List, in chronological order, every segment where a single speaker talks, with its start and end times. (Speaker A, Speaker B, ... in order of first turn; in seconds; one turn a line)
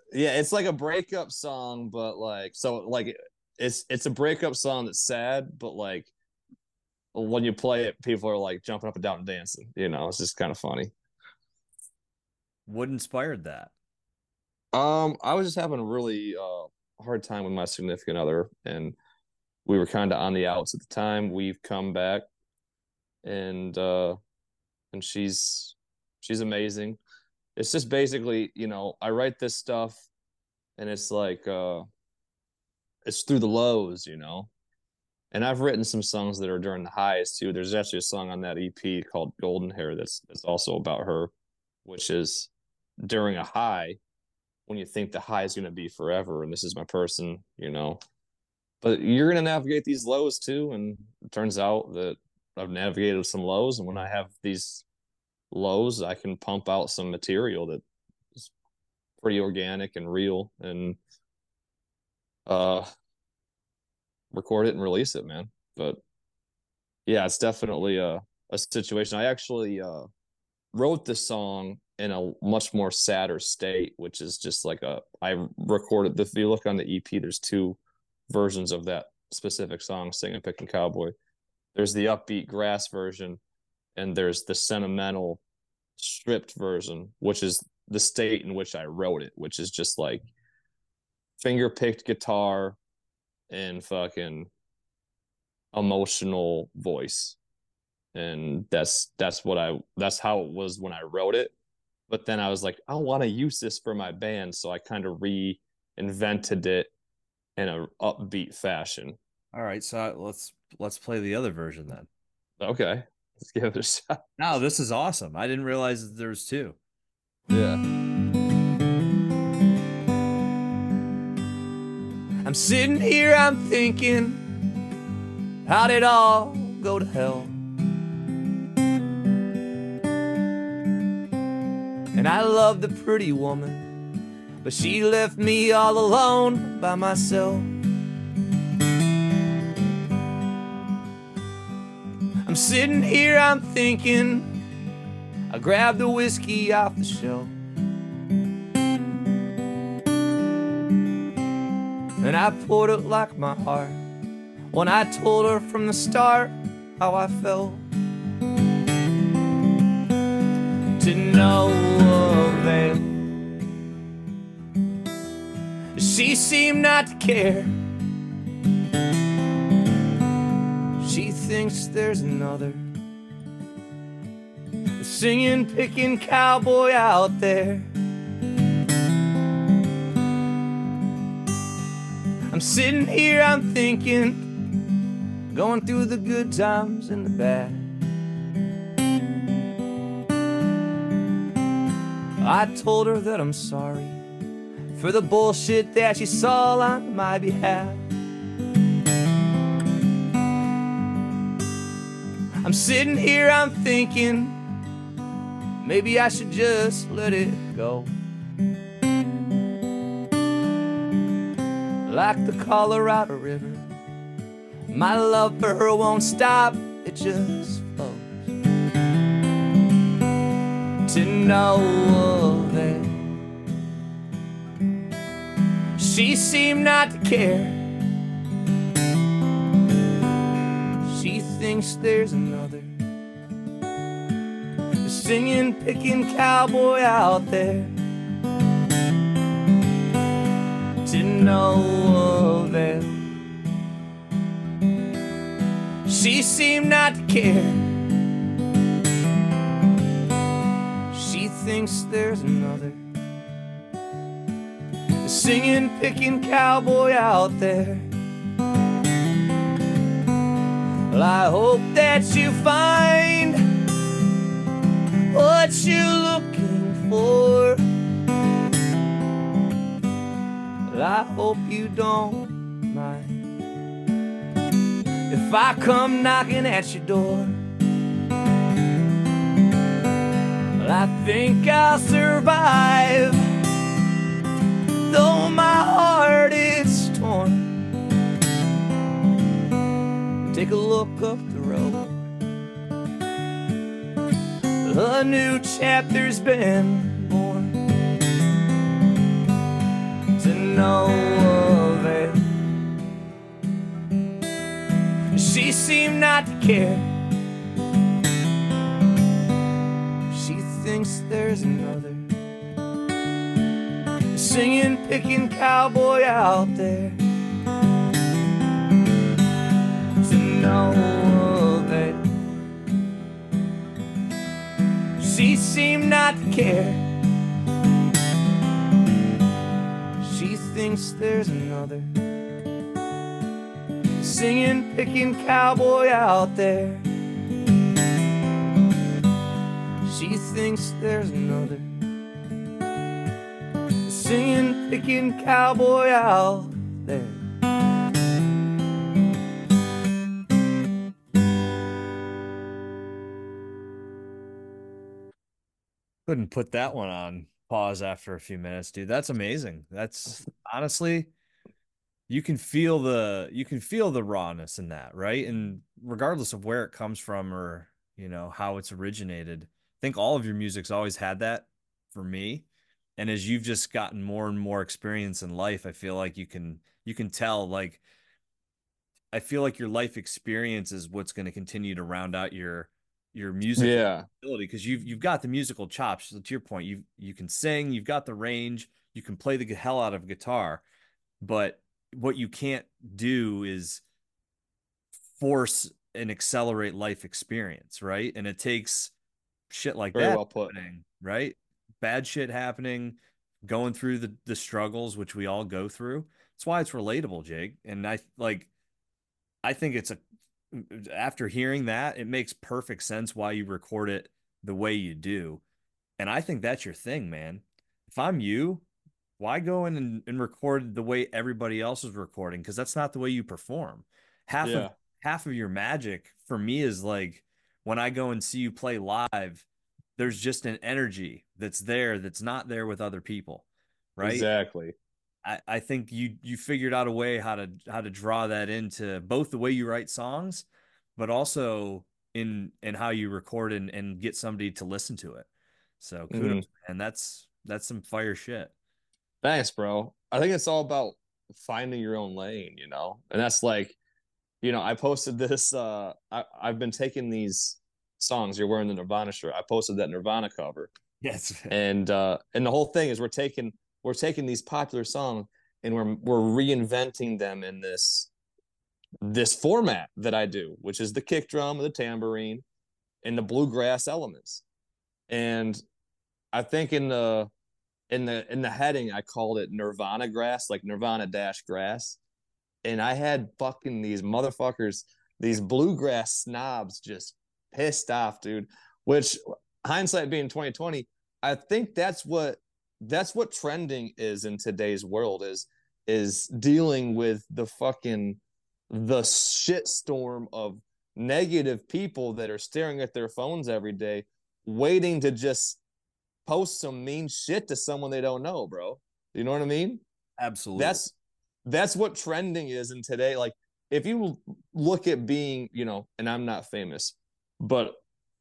Speaker A: 0.1-6.1
Speaker A: 7.1-10.9
Speaker B: 12.7-13.7
Speaker A: 14.7-18.9
Speaker A: 19.6-22.2
Speaker A: 23.2-24.2
Speaker A: 24.9-27.0
Speaker A: 27.6-30.1
Speaker A: 30.8-31.9
Speaker A: 33.0-34.5
Speaker A: 35.3-41.3
Speaker A: 41.8-42.5
Speaker A: 43.0-44.0
Speaker A: 44.7-48.0
Speaker A: 48.8-54.8
Speaker A: 55.5-57.8
Speaker A: 59.2-61.0
Speaker A: 62.5-62.9
Speaker A: 64.3-66.0
Speaker A: 67.1-70.1
Speaker A: 70.7-77.8
Speaker A: 78.3-81.1
Speaker A: 81.7-83.4
Speaker A: 84.0-85.4
Speaker A: 86.0-90.3
Speaker A: 91.4-92.8
Speaker A: 93.5-94.5
Speaker A: 95.7-97.4
Speaker A: 98.1-101.5
Speaker A: 102.1-106.9
Speaker A: 107.6-109.2
Speaker B: 109.5-112.1
Speaker A: 112.6-114.2
Speaker B: 114.4-116.8
Speaker A: 117.5-117.8
Speaker C: 122.4-124.4
Speaker C: 125.7-127.5
Speaker C: 132.1-133.9
Speaker C: 134.6-137.7
Speaker C: 142.4-144.5
Speaker C: 145.5-147.5
Speaker C: 152.2-154.0
Speaker C: 154.7-157.8
Speaker C: 161.0-163.1
Speaker C: 165.9-167.8
Speaker C: 171.0-172.9
Speaker C: 175.0-177.9
Speaker C: 182.5-184.5
Speaker C: 185.5-187.9
Speaker C: 192.4-194.2
Speaker C: 194.9-198.0
Speaker C: 202.6-204.6
Speaker C: 205.8-208.1
Speaker C: 212.1-213.9
Speaker C: 214.9-218.5
Speaker C: 221.1-223.2
Speaker C: 226.0-227.9
Speaker C: 231.1-232.9
Speaker C: 235.0-237.9
Speaker C: 241.0-243.2
Speaker C: 246.1-248.0
Speaker C: 251.1-253.0
Speaker C: 255.2-258.1
Speaker C: 261.1-263.7
Speaker C: 265.3-267.8
Speaker C: 270.9-273.4
Speaker C: 275.3-277.6
Speaker C: 280.8-283.5
Speaker C: 285.0-287.9
Speaker C: 290.5-292.2
Speaker C: 294.8-297.8
Speaker C: 300.4-302.5
Speaker C: 305.3-307.1
Speaker C: 310.3-312.3
Speaker C: 314.3-317.2
Speaker C: 320.2-322.2
Speaker C: 325.2-327.1
Speaker C: 330.2-332.1
Speaker C: 334.2-337.1
Speaker C: 340.0-342.0
Speaker C: 344.0-347.4
Speaker B: 356.3-361.3
Speaker B: 362.3-372.6
Speaker B: 373.2-378.0
Speaker B: 379.3-390.8
Speaker A: 383.8-384.3
Speaker B: 391.4-394.0
Speaker B: 395.4-399.1
Speaker B: 399.7-408.7
Speaker A: 400.1-400.7
Speaker B: 409.6-410.2
Speaker B: 410.7-415.6
Speaker B: 416.2-418.8
Speaker B: 419.4-429.6
Speaker A: 424.6-424.9
Speaker B: 430.2-433.6
Speaker B: 434.1-434.5
Speaker A: 434.2-434.9
Speaker B: 435.4-440.6
Speaker B: 441.2-445.5
Speaker B: 446.0-448.7
Speaker A: 446.3-446.6
Speaker A: 449.4-454.0
Speaker A: 454.6-460.9
Speaker B: 461.2-461.7
Speaker A: 461.7-468.3
Speaker A: 469.2-472.6
Speaker A: 473.2-474.6
Speaker A: 475.3-475.8
Speaker A: 476.5-477.5
Speaker A: 478.1-482.2
Speaker A: 482.8-505.8
Speaker A: 506.4-510.0
Speaker B: 510.4-511.0
Speaker A: 510.8-511.1
Speaker A: 511.6-518.0